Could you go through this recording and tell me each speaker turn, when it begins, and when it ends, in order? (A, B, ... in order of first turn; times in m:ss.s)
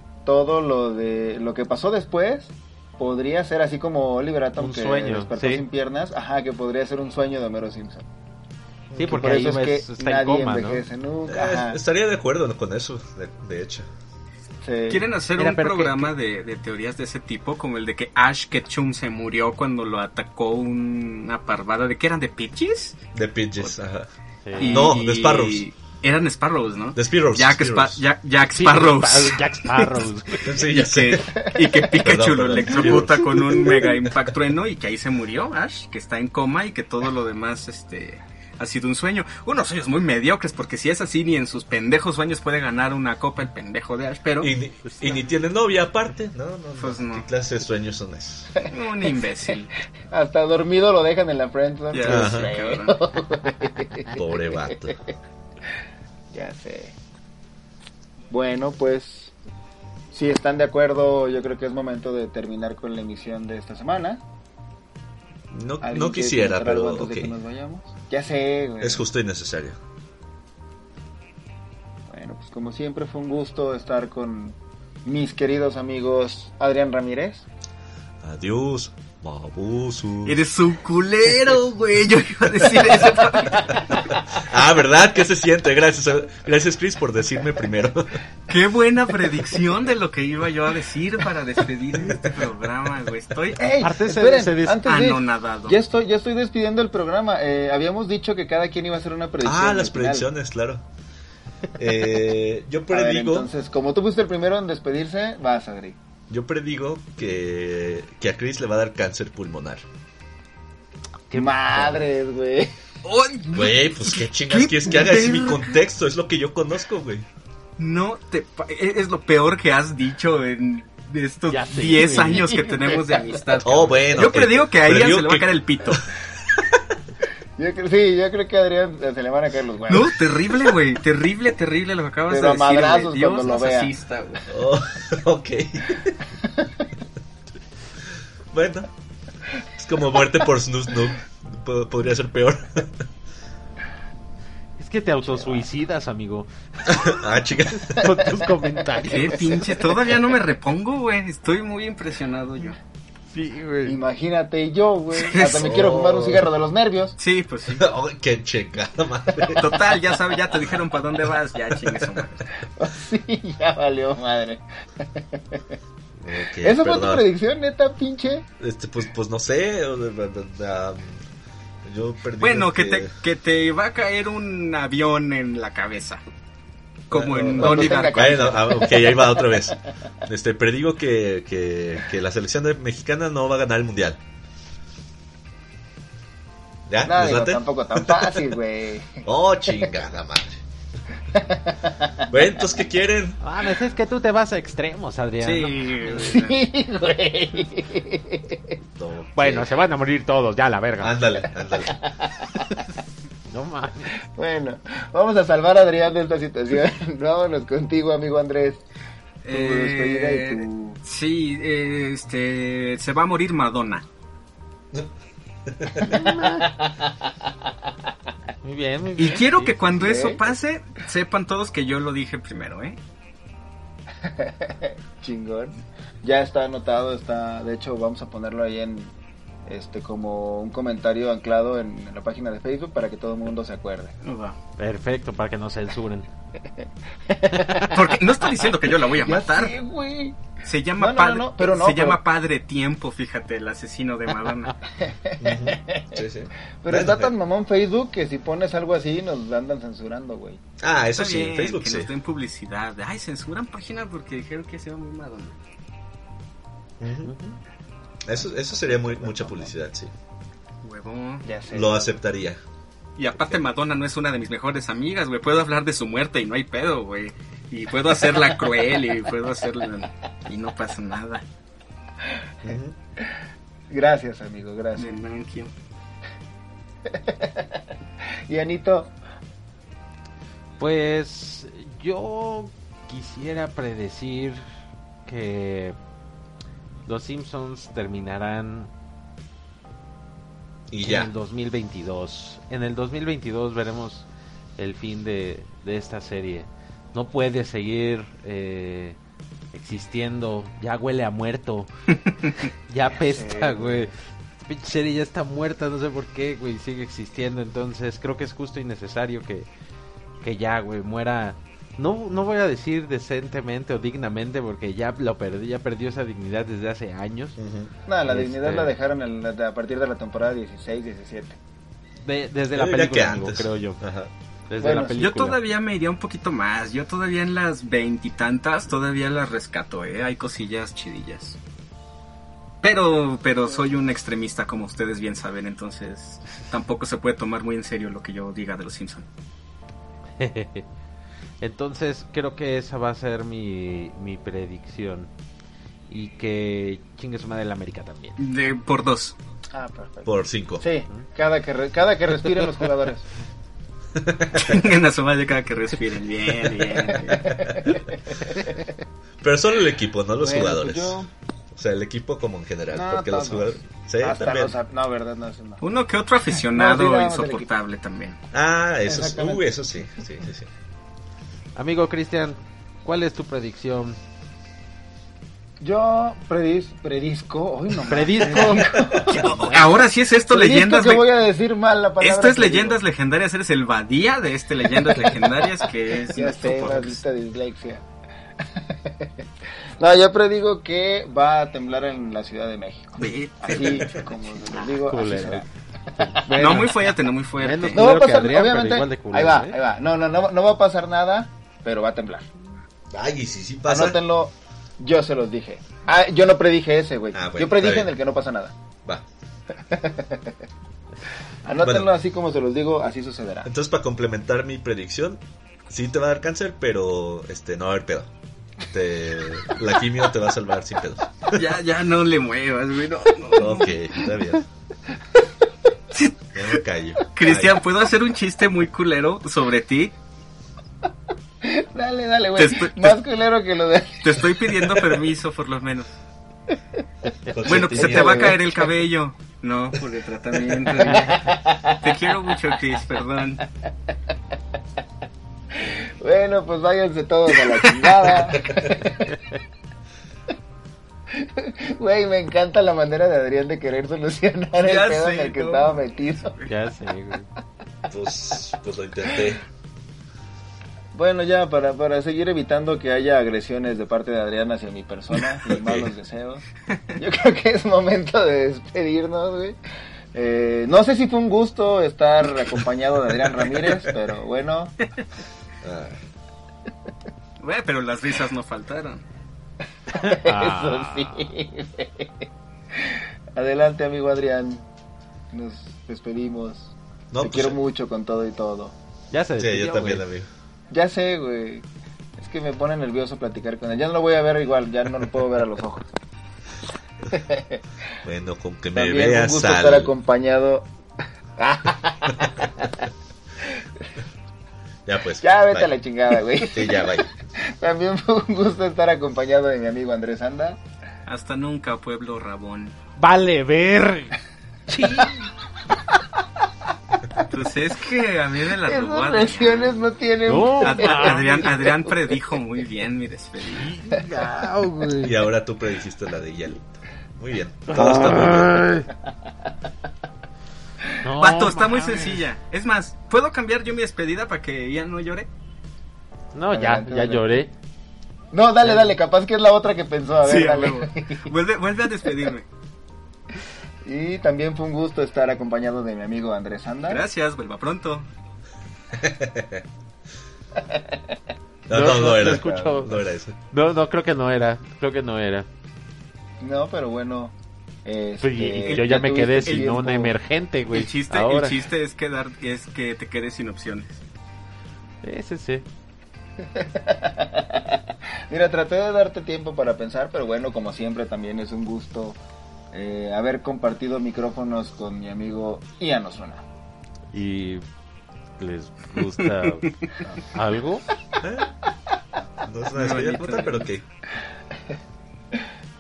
0:00.2-0:08.1 A
0:04.6-0:05.6 B
0:08.9-0:09.3 C
0:09.0-0:10.8 B
0:09.1-0:11.8 A
0:11.3-0:13.9 C
0:14.6-0:15.0 A
0:14.9-0:23.0 D
0:15.4-0:16.1 B
0:23.2-0:25.6 C
0:24.4-0:24.9 B
0:24.6-0:30.1 D
0:27.0-0:28.0 C
0:28.6-0:30.5 B
0:30.4-0:31.3 C
0:30.7-0:44.5 D
0:32.0-0:33.9 C
0:44.4-0:48.6 C
0:44.9-0:45.2 B
0:46.8-0:47.3 D
0:48.7-0:49.7 D
0:50.1-0:54.2 A
0:51.9-0:52.9 D
0:52.0-0:52.5 C
0:54.1-0:55.0 C
0:56.3-0:56.9 A
0:58.3-0:59.3 A
1:00.1-1:04.2 A
1:05.5-1:07.4 C
1:05.8-1:09.0 A
1:08.8-1:09.8 C
1:12.1-1:17.4 A
1:18.2-1:20.4 C
1:20.2-1:24.1 D
1:24.4-1:28.2 C
1:28.5-1:33.6 D
1:33.6-1:40.3 A
1:33.8-1:34.8 B
1:34.8-1:35.8 D
1:39.4-1:40.8 C
1:41.8-1:43.5 C
1:42.9-1:46.0 A
1:46.3-1:49.8 C
1:51.3-1:52.0 B
1:51.3-1:52.7 A
1:53.0-1:55.8 D
1:53.5-1:57.2 C
1:57.8-2:06.1 D
2:01.5-2:02.6 B
2:03.6-2:06.8 C
2:07.6-2:10.2 A
2:09.9-2:14.4 D
2:12.3-2:13.9 A
2:14.5-2:16.2 C
2:18.5-2:18.9 C
2:19.8-2:22.9 C
2:24.8-2:27.2 B
2:25.3-2:25.6 A
2:26.9-2:28.1 C
2:28.0-2:29.7 B
2:29.1-2:32.8 D
2:29.2-2:29.6 A
2:33.3-2:34.0 B
2:33.8-2:37.2 A
2:35.1-2:35.8 D
2:35.4-2:36.5 C
2:37.2-2:37.9 D
2:37.8-2:39.8 C
2:39.3-2:39.6 A
2:39.5-2:42.4 D
2:42.8-2:45.6 A
2:46.2-2:47.3 C
2:46.6-2:48.5 A
2:48.6-2:51.2 C
2:51.8-2:53.1 C
2:52.4-2:56.2 D
2:57.1-2:58.6 D
2:57.1-3:04.2 C
2:57.5-2:59.7 A
3:06.9-3:08.5 C
3:07.0-3:09.2 A
3:09.2-3:10.6 C
3:11.4-3:12.3 A
3:12.3-3:13.4 C
3:13.4-3:16.4 B
3:15.4-3:16.6 D
3:16.1-3:18.8 A
3:19.0-3:19.7 C
3:19.4-3:21.2 B
3:21.0-3:22.0 C
3:21.8-3:22.8 A
3:23.5-3:24.1 B
3:24.3-3:28.8 A
3:29.4-3:34.0 D
3:29.5-3:31.0 A
3:35.7-3:36.1 C
3:36.0-3:36.7 A
3:36.1-3:36.6 B
3:38.6-3:39.7 B
3:39.2-3:43.0 D
3:40.0-3:40.4 A
3:44.2-3:49.1 A
3:49.7-3:54.2 A
3:54.2-3:54.6 D
3:54.8-3:56.3 B
3:57.3-3:58.0 A
3:57.5-3:57.9 B
3:57.9-3:59.7 D
3:59.2-4:00.4 A
4:00.6-4:04.7 D
4:01.0-4:02.2 A
4:05.0-4:06.2 A
4:05.4-4:07.3 C
4:06.8-4:10.6 A
4:10.8-4:12.1 C
4:11.1-4:15.6 D
4:17.0-4:17.6 C
4:18.2-4:20.1 C
4:18.4-4:19.7 A
4:20.8-4:21.5 D
4:21.4-4:22.0 A
4:21.7-4:22.6 C
4:23.2-4:31.4 D
4:32.6-4:33.0 C
4:33.9-4:35.1 A
4:35.0-4:35.7 D
4:37.1-4:37.8 A
4:38.5-4:39.1 A
4:40.8-4:44.6 B
4:45.3-4:46.0 B
4:47.1-4:48.9 B
4:50.9-4:51.3 C
4:51.0-4:54.3 B
4:54.8-4:59.2 B
4:59.7-5:01.9 B
5:02.3-5:02.7 D
5:02.9-5:04.1 B
5:03.1-5:04.1 A
5:04.7-5:09.7 B
5:10.4-5:17.6 B
5:17.6-5:17.9 C
5:18.1-5:21.6 A
5:18.3-5:18.9 B
5:22.2-5:24.0 B
5:22.7-5:24.3 C
5:24.7-5:25.6 B
5:24.8-5:25.2 A
5:24.9-5:31.6 D
5:32.8-5:39.3 D
5:40.4-5:40.9 B
5:41.6-5:45.3 B
5:46.1-5:48.4 B
5:48.4-5:49.4 D
5:49.7-5:53.3 A
5:50.3-5:50.9 C
5:54.2-5:54.8 C
5:54.5-5:57.4 D
5:57.1-5:58.7 A
5:57.3-5:57.8 C
5:59.4-6:01.2 C
6:00.4-6:01.3 A
6:01.7-6:04.8 C
6:02.9-6:05.8 A
6:05.8-6:08.4 D
6:06.8-6:07.7 A
6:08.5-6:10.7 C
6:09.1-6:09.6 A
6:11.8-6:14.2 B
6:15.8-6:19.4 A
6:18.1-6:19.1 B
6:18.4-6:21.3 D
6:19.1-6:20.0 C
6:20.5-6:23.0 A
6:22.2-6:27.2 D
6:25.0-6:28.0 A
6:28.6-6:29.4 A
6:30.0-6:36.6 A
6:33.2-6:34.3 D
6:33.8-6:34.1 C
6:35.0-6:35.6 B
6:36.2-6:37.0 B
6:36.6-6:38.0 D
6:37.6-6:39.8 B
6:37.9-6:42.5 A
6:43.1-6:44.2 C
6:43.9-6:48.8 A
6:47.3-6:48.1 C
6:49.9-6:50.6 A
6:51.6-6:53.7 A
6:51.8-6:52.1 C
6:53.6-6:58.3 C
6:58.9-7:01.7 C
7:01.5-7:03.9 D
7:03.6-7:04.6 C
7:06.1-7:06.8 D
7:06.5-7:07.8 C
7:07.3-7:10.1 D
7:11.6-7:15.0 A
7:12.6-7:13.2 D
7:14.2-7:16.2 D
7:17.5-7:18.6 C
7:17.6-7:23.6 D
7:17.7-7:18.9 A
7:20.5-7:22.2 A
7:25.8-7:29.4 A
7:27.7-7:28.3 D
7:31.3-7:36.5 A
7:34.8-7:36.7 D
7:36.7-7:37.5 B
7:38.1-7:39.6 C
7:41.1-7:46.6 A
7:45.7-7:46.1 C
7:47.2-7:49.8 A
7:50.3-7:55.0 A
7:55.8-7:56.2 C
7:57.6-7:59.2 D
8:00.1-8:02.4 A
8:00.1-8:01.5 B
8:03.0-8:04.9 A
8:05.5-8:09.0 A
8:07.3-8:07.8 C
8:09.3-8:10.2 B
8:09.6-8:10.5 C
8:10.9-8:11.8 A
8:12.4-8:16.2 A
8:17.3-8:17.8 A
8:18.2-8:20.1 C
8:18.9-8:20.9 A
8:21.6-8:23.1 A
8:25.1-8:25.9 C
8:25.4-8:30.8 A
8:26.7-8:27.3 C
8:31.3-8:33.0 D
8:33.2-8:34.4 B
8:34.9-8:35.5 B
8:37.5-8:40.0 D
8:38.8-8:42.1 A
8:40.5-8:41.9 B
8:40.8-8:43.9 D
8:43.8-8:45.4 B
8:45.2-8:48.8 C
8:47.9-8:49.1 B
8:51.2-8:52.4 B
8:51.4-8:55.5 D
8:56.5-8:57.7 B
8:56.7-8:57.6 A
8:58.5-9:01.5 A
9:00.4-9:02.7 D
9:04.0-9:07.2 A
9:07.1-9:08.3 D
9:09.2-9:09.8 C
9:11.9-9:13.6 C
9:11.9-9:13.2 B
9:13.7-9:15.7 B
9:16.6-9:17.5 A
9:18.0-9:20.3 A
9:18.4-9:21.8 B
9:18.8-9:19.9 D
9:20.9-9:24.2 D
9:25.2-9:25.9 B
9:26.8-9:32.4 A
9:32.9-9:36.6 A
9:37.3-9:37.8 B
9:38.6-9:41.1 B
9:41.4-9:41.7 C
9:42.6-9:44.0 C
9:42.9-9:43.9 D